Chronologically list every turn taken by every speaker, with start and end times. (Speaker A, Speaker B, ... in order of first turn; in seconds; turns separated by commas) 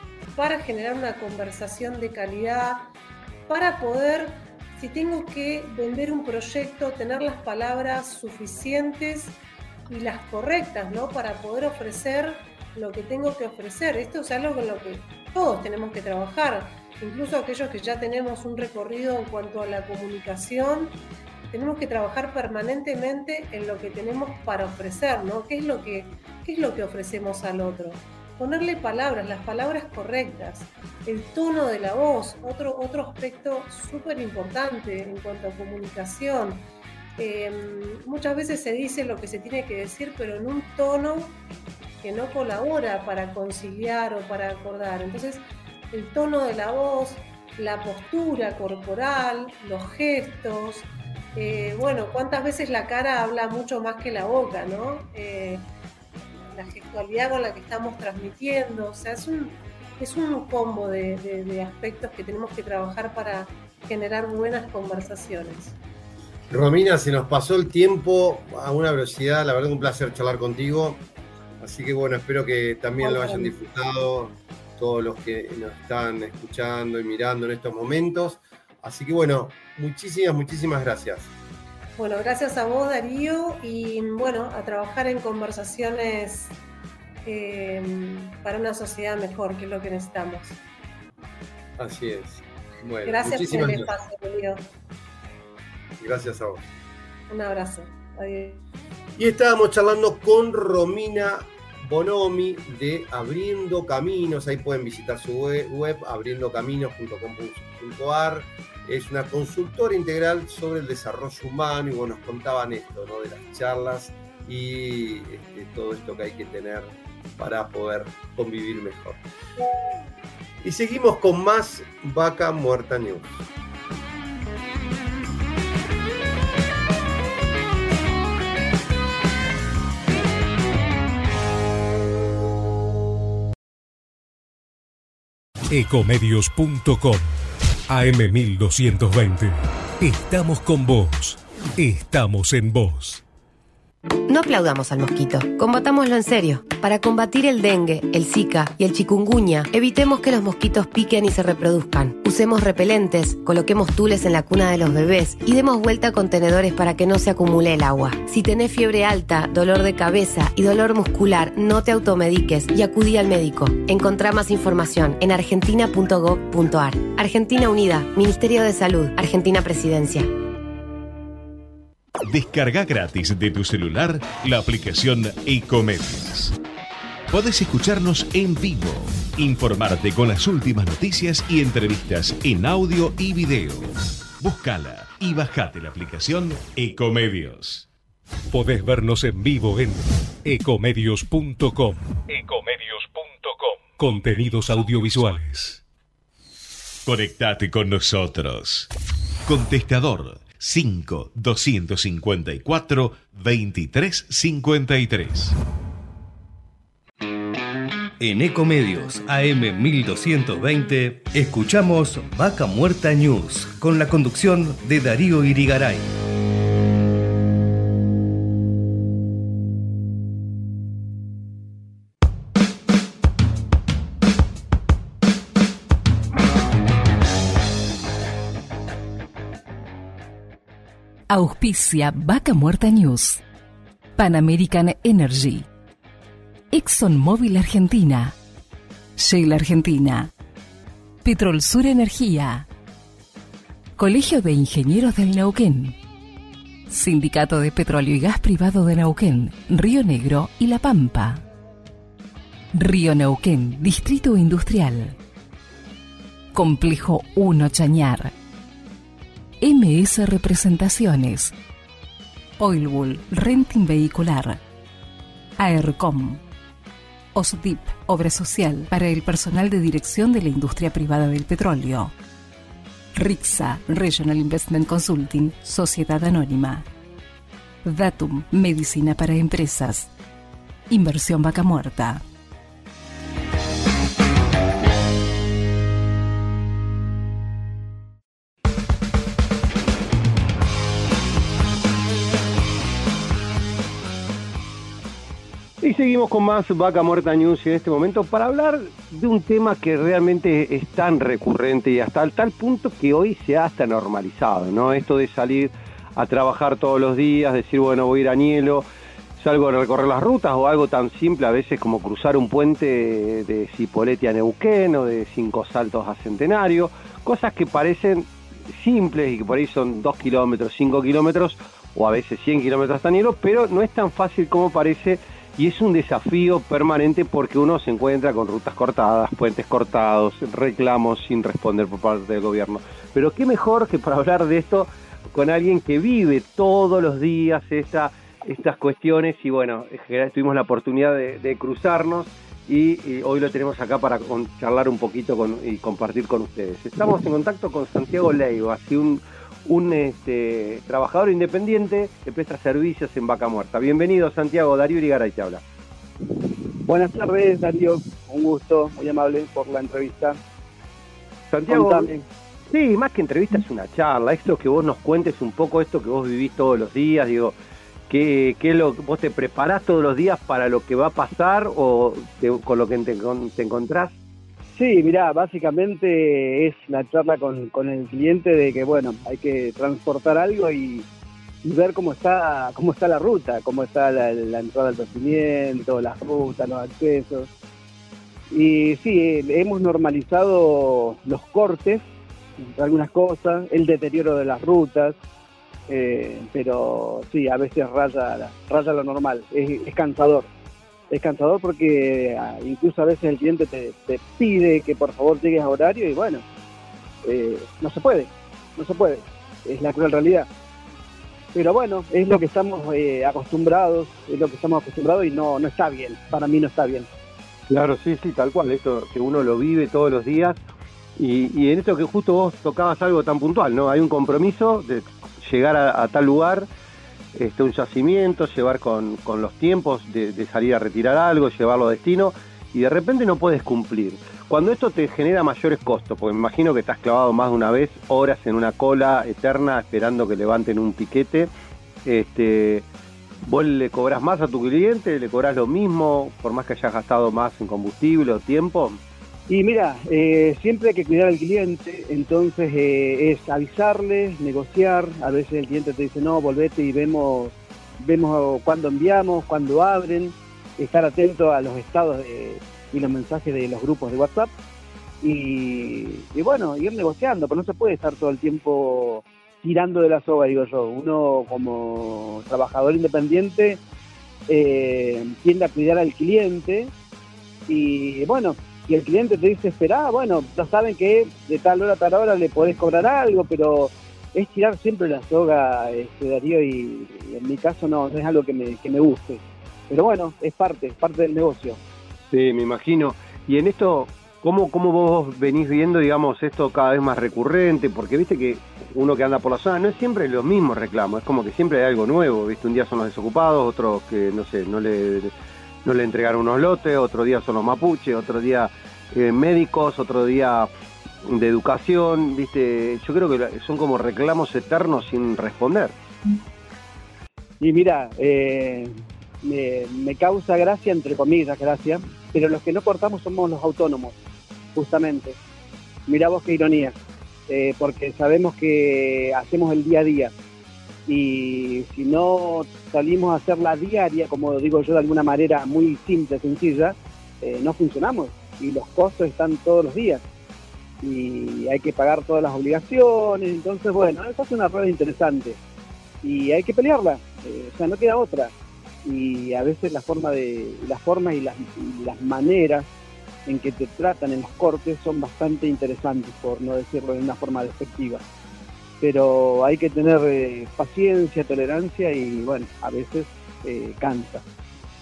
Speaker A: 0.3-2.9, Speaker A: 3.5-9.4, Speaker A: 9.9-21.0, Speaker A: 21.5-36.6, Speaker A: 37.2-41.4, Speaker A: 42.0-55.7, Speaker A: 56.5-65.8, Speaker B: 66.5-71.0, Speaker B: 71.6-81.3, Speaker A: 73.0-73.5, Speaker A: 82.0-86.5, Speaker A: 87.2-90.6, Speaker B: 91.8-93.9, Speaker A: 93.0-94.7, Speaker B: 96.0-96.6, Speaker A: 97.3-98.6, Speaker B: 99.2-119.2, Speaker B: 120.6-123.5, Speaker C: 135.7-137.3, Speaker C: 137.9-143.2, Speaker D: 144.3-170.3, Speaker E: 172.2-176.5, Speaker E: 177.3-187.9, Speaker C: 188.5-192.2, Speaker E: 192.3-193.9, Speaker C: 194.0-195.8, Speaker E: 197.0-198.9, Speaker E: 199.4-205.5, Speaker F: 208.2-216.2, Speaker G: 231.3-233.4, Speaker G: 234.2-235.7, Speaker G: 236.7-238.3, Speaker G: 239.2-240.3, Speaker G: 241.2-242.7, Speaker G: 244.0-245.9, Speaker G: 246.9-251.4, Speaker G: 252.7-255.2, Speaker G: 256.5-258.3, Speaker G: 259.6-261.5, Speaker G: 262.6-264.6, Speaker G: 265.6-266.4, Speaker G: 267.3-272.1, Speaker G: 273.1-276.9, Speaker G: 277.8-280.1, Speaker G: 280.9-282.2, Speaker H: 295.8-355.6, Speaker I: 356.3-360.4, Speaker H: 361.5-367.5, Speaker I: 361.7-362.2, Speaker H: 368.1-374.2, Speaker I: 374.7-381.1, Speaker I: 381.6-387.5, Speaker I: 388.5-392.1, Speaker I: 392.6-395.2, Speaker I: 395.9-400.5, Speaker I: 401.1-406.4, Speaker I: 407.2-410.5, Speaker I: 411.5-417.1, Speaker H: 417.7-420.6, Speaker H: 421.2-426.7, Speaker H: 427.3-441.5, Speaker H: 442.0-442.9, Speaker H: 443.4-449.0, Speaker I: 449.5-464.5, Speaker I: 465.2-473.8, Speaker I: 474.5-476.9, Speaker I: 477.7-491.8, Speaker H: 492.3-505.3, Speaker H: 505.8-510.7, Speaker H: 511.2-516.0, Speaker I: 517.6-524.2, Speaker I: 524.7-525.4, Speaker I: 526.1-527.0, Speaker I: 527.5-530.3, Speaker I: 531.1-540.2, Speaker I: 541.0-545.6, Speaker I: 546.2-548.5, Speaker I: 549.0-552.9, Speaker I: 553.5-558.2, Speaker I: 559.0-564.4